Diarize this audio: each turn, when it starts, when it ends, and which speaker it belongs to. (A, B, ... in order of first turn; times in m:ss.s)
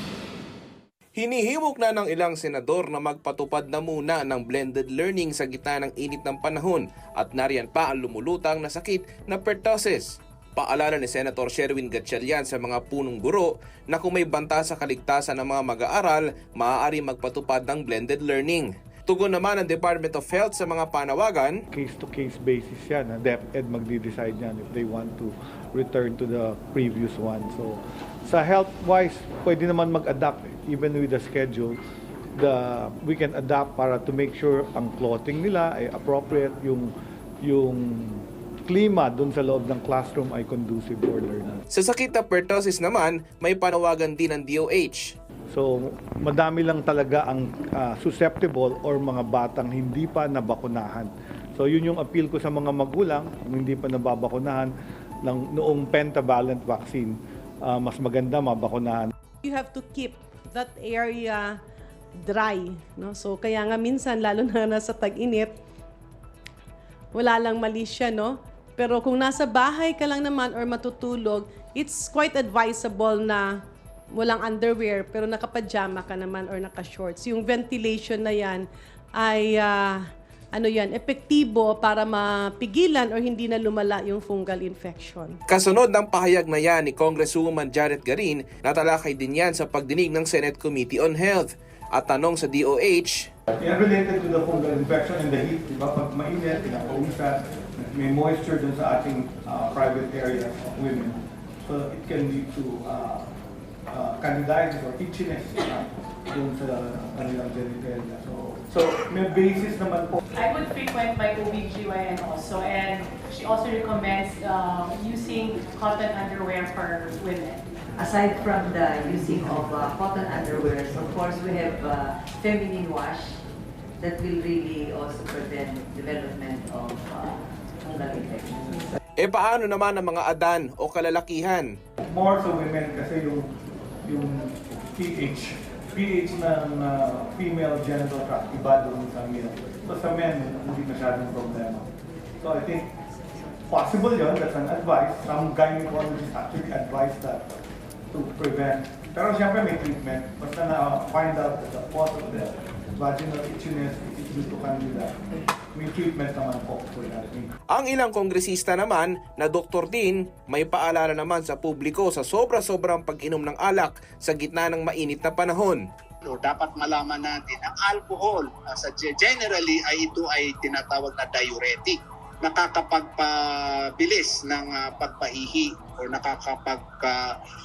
0:01.2-0:21.5 A
0:21.7-0:31.8 B
0:32.3-0:41.6 B
0:41.7-0:45.1 A
0:45.5-0:54.7 B
0:55.2-0:59.1 B
0:59.4-1:01.6 C
1:02.2-1:05.5 C
1:07.1-1:13.6 C
1:14.1-1:25.4 C
1:25.5-1:33.3 A
1:33.6-1:43.3 B
1:43.9-1:50.2 B
1:50.3-1:57.6 D
1:58.0-2:03.4 E
2:04.0-2:08.9 E
2:09.2-2:11.7 A
2:12.0-2:13.5 B
2:14.0-2:21.9 B
2:22.4-2:22.9 B
2:23.7-2:27.5 B
2:28.1-2:35.2 B
2:35.7-2:37.5 B
2:37.7-2:45.8 A
2:46.2-2:57.3 F